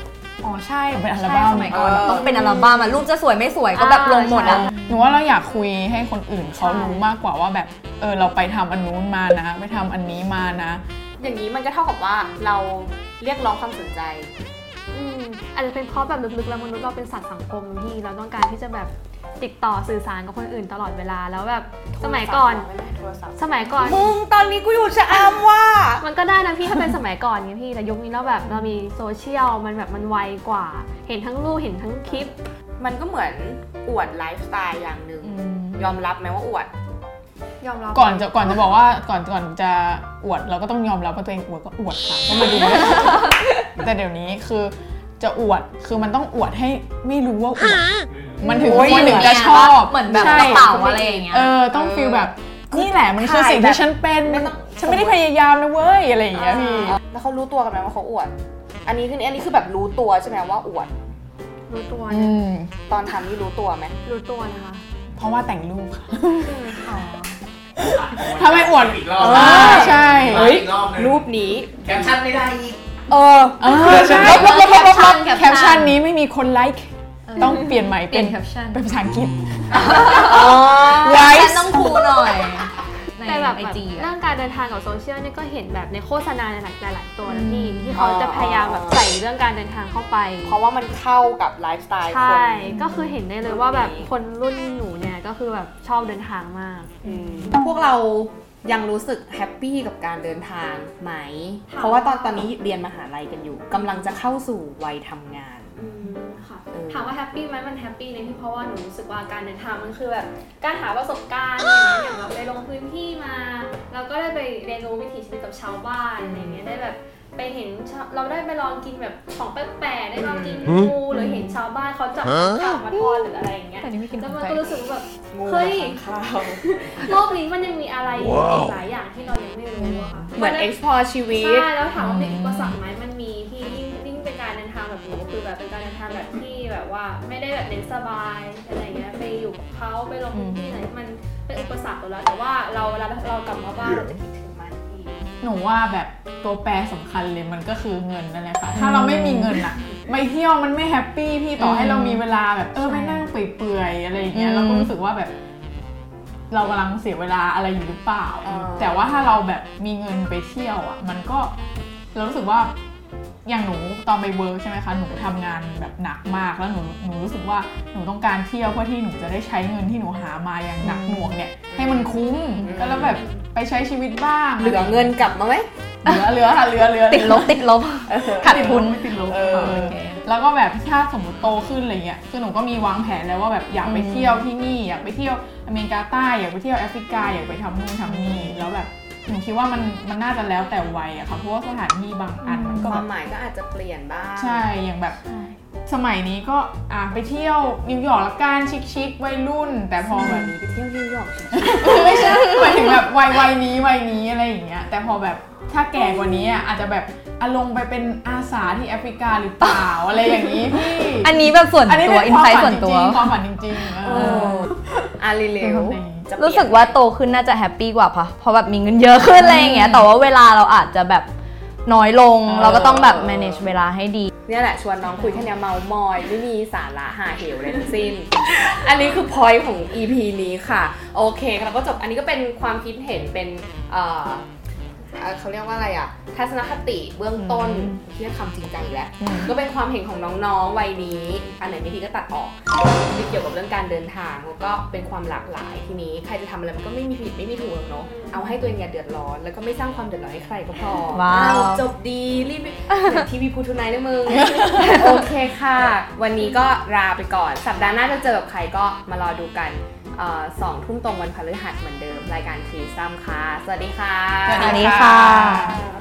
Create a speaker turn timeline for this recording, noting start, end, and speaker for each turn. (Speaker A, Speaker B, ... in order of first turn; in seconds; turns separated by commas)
Speaker A: 0.4-5.1, Speaker B: 0.9-2.4, Speaker C: 1.7-3.0, Speaker D: 2.3-2.7, Speaker D: 3.7-4.7, Speaker B: 4.4-10.8, Speaker D: 6.6-7.1, Speaker C: 11.2-14.3, Speaker D: 14.9-22.6, Speaker C: 21.9-26.0, Speaker D: 23.4-24.1, Speaker D: 26.0-32.3, Speaker C: 32.0-36.7, Speaker A: 35.2-35.9, Speaker D: 37.6-38.3, Speaker B: 37.9-47.9, Speaker C: 42.3-43.5, Speaker B: 48.4-57.0, Speaker C: 48.4-51.2, Speaker A: 48.6-51.5, Speaker C: 51.7-55.2, Speaker D: 56.4-57.0, Speaker C: 56.4-58.3, Speaker C: 58.8-60.9, Speaker D: 61.7-62.4, Speaker B: 62.1-62.7, Speaker C: 62.9-63.9, Speaker D: 64.0-64.8, Speaker B: 65.1-66.9, Speaker D: 66.4-66.8, Speaker A: 66.8-67.3, Speaker B: 67.8-70.6, Speaker E: 68.1-71.2, Speaker C: 69.2-72.2, Speaker E: 71.8-72.8, Speaker C: 73.1-74.2, Speaker B: 73.6-82.0, Speaker A: 73.8-76.0, Speaker A: 77.3-78.8, Speaker D: 77.4-77.7, Speaker A: 79.8-84.1, Speaker C: 79.9-81.2, Speaker D: 83.2-90.6, Speaker A: 87.2-88.0, Speaker C: 87.9-89.0, Speaker C: 90.4-92.8, Speaker D: 92.0-97.7, Speaker A: 92.7-93.2, Speaker C: 93.4-94.1, Speaker C: 97.0-105.8, Speaker D: 101.7-102.3, Speaker D: 103.7-104.1, Speaker D: 105.8-126.0, Speaker C: 106.7-107.1, Speaker C: 116.2-116.6, Speaker C: 120.2-120.8, Speaker A: 121.1-121.6, Speaker A: 123.8-124.7, Speaker C: 125.3-127.1, Speaker D: 126.6-130.7, Speaker A: 129.8-130.3, Speaker C: 130.3-131.7, Speaker D: 131.3-144.2, Speaker B: 131.9-132.8, Speaker A: 140.3-140.8, Speaker C: 144.0-145.2, Speaker B: 145.4-155.3, Speaker A: 148.7-149.6, Speaker A: 151.6-152.2, Speaker A: 152.8-153.3, Speaker A: 154.3-154.9, Speaker B: 156.5-161.5, Speaker C: 158.4-159.3, Speaker B: 162.1-162.7, Speaker B: 163.4-175.2, Speaker A: 170.8-171.4, Speaker C: 171.7-173.2, Speaker D: 173.0-173.4, Speaker C: 174.6-175.7, Speaker B: 176.0-177.7, Speaker A: 177.0-180.2, Speaker C: 178.1-179.9, Speaker B: 178.4-193.1, Speaker A: 183.8-184.4, Speaker A: 188.0-188.7, Speaker A: 192.4-193.0, Speaker C: 192.8-194.7, Speaker B: 194.3-195.2, Speaker A: 195.2-195.6, Speaker B: 195.8-200.5, Speaker C: 200.1-202.9, Speaker B: 201.6-215.1, Speaker A: 209.6-213.4, Speaker A: 214.1-214.7, Speaker C: 214.1-214.7, Speaker C: 215.2-217.0, Speaker A: 215.6-221.3, Speaker B: 215.7-216.3, Speaker B: 219.4-220.0, Speaker A: 221.8-224.3, Speaker B: 222.4-223.2, Speaker C: 222.6-223.7, Speaker C: 224.4-234.4, Speaker C: 235.1-264.9, Speaker B: 237.4-238.0, Speaker B: 239.2-239.5, Speaker D: 248.0-248.6, Speaker A: 251.1-251.9, Speaker A: 252.9-253.2, Speaker B: 264.4-265.8, Speaker A: 264.5-265.8